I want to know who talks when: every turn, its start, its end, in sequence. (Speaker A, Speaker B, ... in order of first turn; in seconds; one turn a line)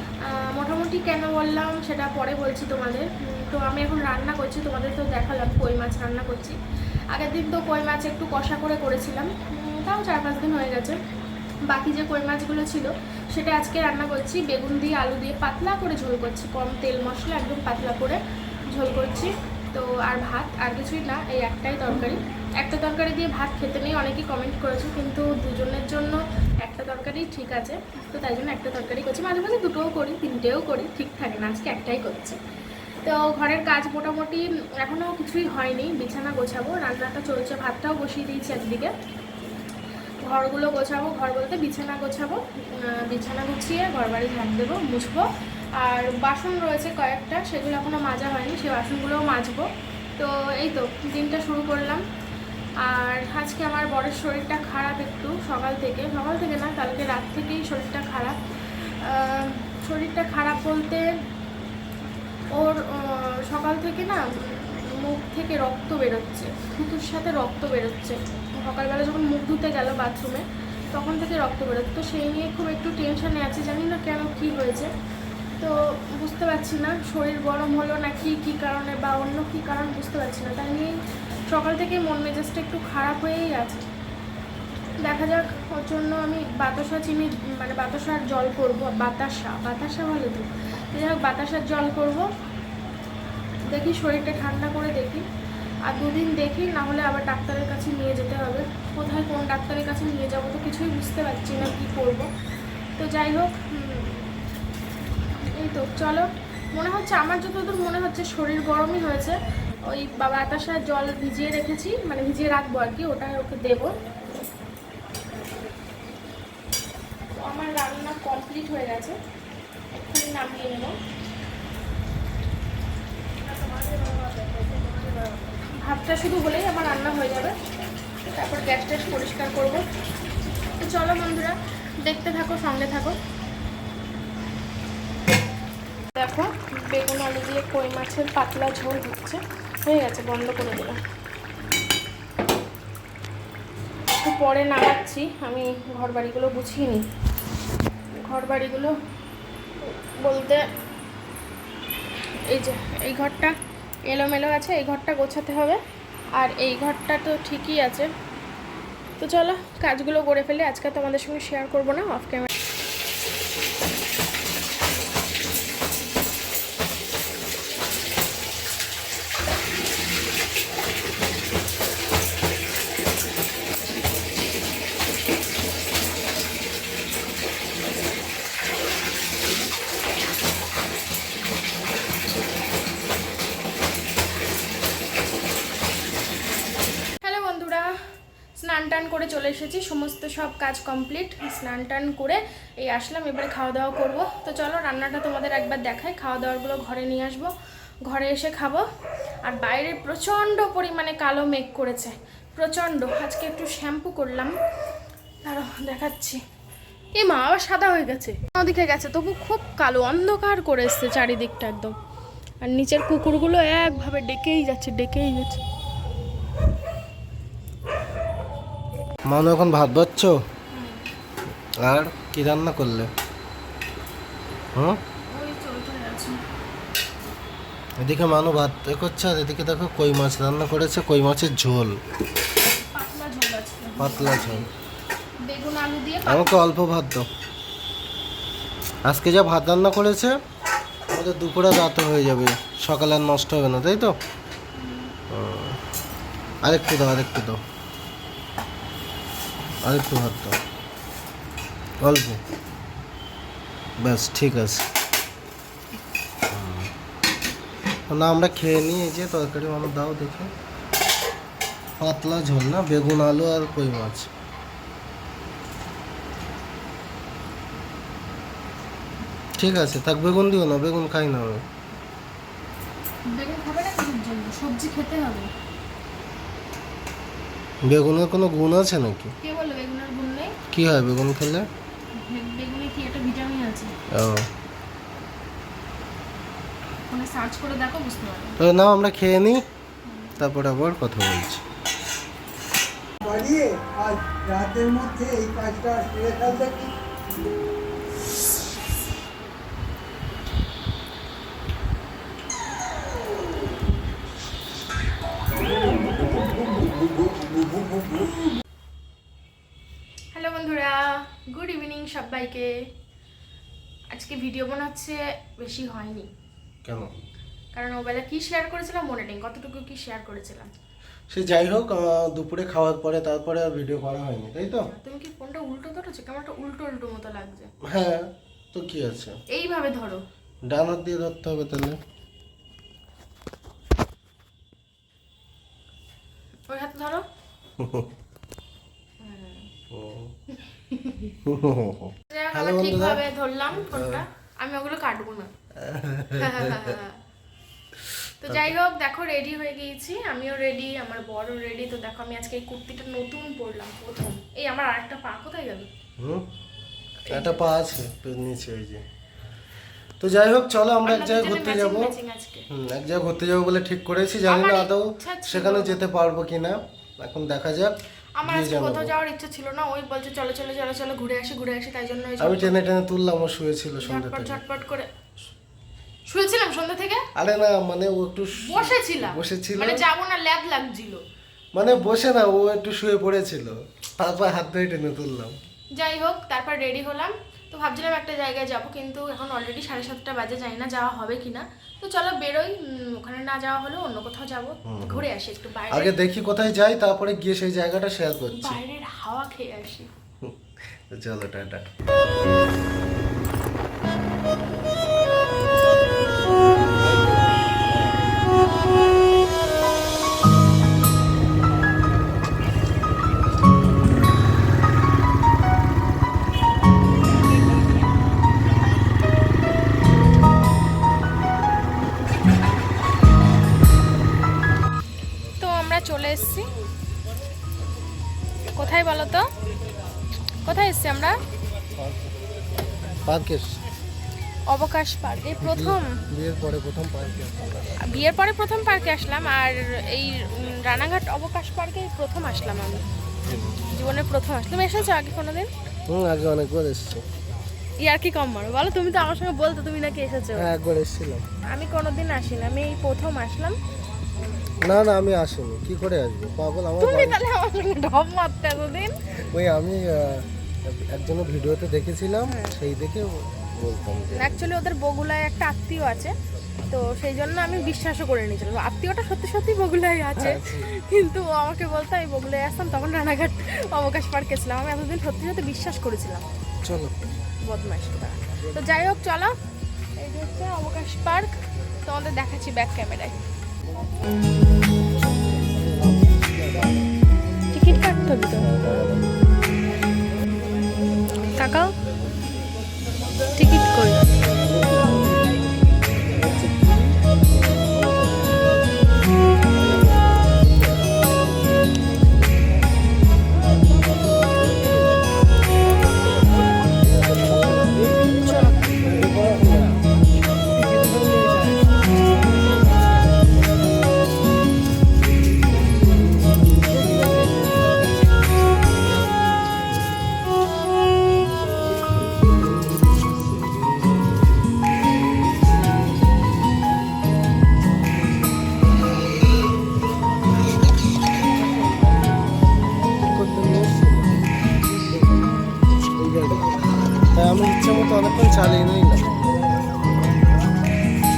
Speaker A: 0.2-6.6
Speaker A: 7.1-11.0
Speaker A: 11.7-32.4
Speaker A: 33.0-38.9
Speaker A: 40.2-52.0
Speaker A: 52.8-61.2
Speaker A: 62.5-74.9
Speaker A: 75.6-81.0
Speaker A: 81.5-83.8
Speaker A: 85.0-92.3
Speaker A: 93.7-95.2
Speaker A: 95.9-102.3
Speaker A: 103.0-104.3
Speaker A: 105.4-114.0
Speaker A: 117.4-119.2
Speaker A: 119.9-121.0
Speaker A: 125.7-127.6
Speaker A: 128.3-129.8
Speaker A: 130.8-133.2
Speaker A: 136.2-141.0
Speaker A: 144.1-147.0
Speaker A: 148.2-148.9
Speaker A: 149.8-150.7
Speaker A: 152.5-153.6
Speaker A: 154.1-155.8
Speaker A: 156.4-158.1
Speaker A: 159.2-162.5
Speaker A: 187.2-187.9
Speaker A: 188.6-197.5
Speaker A: 198.1-198.8
Speaker A: 199.4-204.6
Speaker A: 205.4-206.4
Speaker A: 207.2-211.9
Speaker A: 212.6-215.6
Speaker B: 219.3-220.4
Speaker A: 220.7-221.1
Speaker B: 221.8-223.1
Speaker B: 224.7-225.0
Speaker A: 225.3-226.4
Speaker B: 228.0-232.0
Speaker A: 232.9-234.7
Speaker B: 234.0-234.7
Speaker A: 235.4-236.6
Speaker B: 236.3-237.3
Speaker B: 239.1-240.3
Speaker B: 241.1-244.2
Speaker A: 244.8-245.2
Speaker B: 245.3-245.8
Speaker B: 246.6-247.6
Speaker B: 249.8-250.6
Speaker B: 252.0-252.4
Speaker B: 254.0-254.9
Speaker B: 256.5-256.9
Speaker B: 258.1-260.5
Speaker B: 262.0-264.3
Speaker B: 269.6-271.7
Speaker A: 273.3-275.5
Speaker B: 277.8-279.4
Speaker A: 279.4-280.6
Speaker B: 280.7-281.7
Speaker A: 282.2-283.9
Speaker B: 284.1-284.5
Speaker A: 287.1-288.6
Speaker B: 288.6-289.6
Speaker A: 290.1-290.3
Speaker B: 290.4-291.6
Speaker C: 293.2-296.9
Speaker A: 310.3-312.9
Speaker A: 314.1-316.3
Speaker B: 316.8-317.2
Speaker A: 317.8-320.7
Speaker B: 321.3-324.9
Speaker A: 324.9-327.7
Speaker B: 327.8-329.4
Speaker A: 329.5-330.2
Speaker B: 330.7-332.0
Speaker A: 336.7-337.2
Speaker B: 337.8-338.1
Speaker A: 339.2-339.7
Speaker B: 339.9-340.4
Speaker A: 340.9-341.3
Speaker B: 341.4-343.2
Speaker A: 342.3-345.5
Speaker B: 343.8-344.2
Speaker B: 345.8-347.0
Speaker A: 346.4-347.2
Speaker B: 348.1-348.7
Speaker A: 348.4-355.9
Speaker B: 356.2-356.5
Speaker B: 357.3-359.0
Speaker A: 357.3-357.7
Speaker B: 360.2-362.1
Speaker A: 361.0-362.7
Speaker B: 362.7-369.1
Speaker A: 364.5-366.0
Speaker A: 368.4-372.8
Speaker B: 372.4-374.6
Speaker A: 374.0-375.1
Speaker A: 376.3-377.3
Speaker B: 377.4-380.1
Speaker A: 378.6-381.2
Speaker B: 381.8-385.6
Speaker A: 385.9-396.1
Speaker B: 394.9-395.2
Speaker B: 395.9-398.8
Speaker A: 398.5-400.1
Speaker B: 400.4-401.9
Speaker B: 406.8-408.4
Speaker A: 425.6-426.7
Speaker A: 428.8-429.5
Speaker A: 430.6-431.4
Speaker B: 431.9-432.3
Speaker B: 433.2-433.8
Speaker A: 434.7-436.2
Speaker B: 435.6-438.1
Speaker A: 438.0-443.1
Speaker B: 443.5-443.8
Speaker A: 443.9-445.7
Speaker B: 446.1-447.2
Speaker A: 448.0-450.7
Speaker B: 450.6-451.5
Speaker A: 451.7-453.8
Speaker B: 454.8-457.4
Speaker A: 457.0-459.1
Speaker B: 459.5-464.6
Speaker A: 462.5-462.8
Speaker A: 464.3-466.3
Speaker A: 466.9-476.5
Speaker B: 470.4-470.9
Speaker B: 476.8-477.1
Speaker A: 477.6-479.5
Speaker A: 480.2-483.4
Speaker B: 485.5-486.9
Speaker A: 487.7-488.7
Speaker B: 488.6-489.3
Speaker A: 491.6-491.9
Speaker A: 493.6-494.2
Speaker B: 494.8-495.2
Speaker B: 499.9-500.3
Speaker B: 507.4-510.0
Speaker B: 510.8-511.7
Speaker B: 516.7-517.3
Speaker B: 523.1-523.7
Speaker B: 533.2-535.5
Speaker B: 536.2-536.7
Speaker B: 537.3-539.5
Speaker B: 540.0-540.4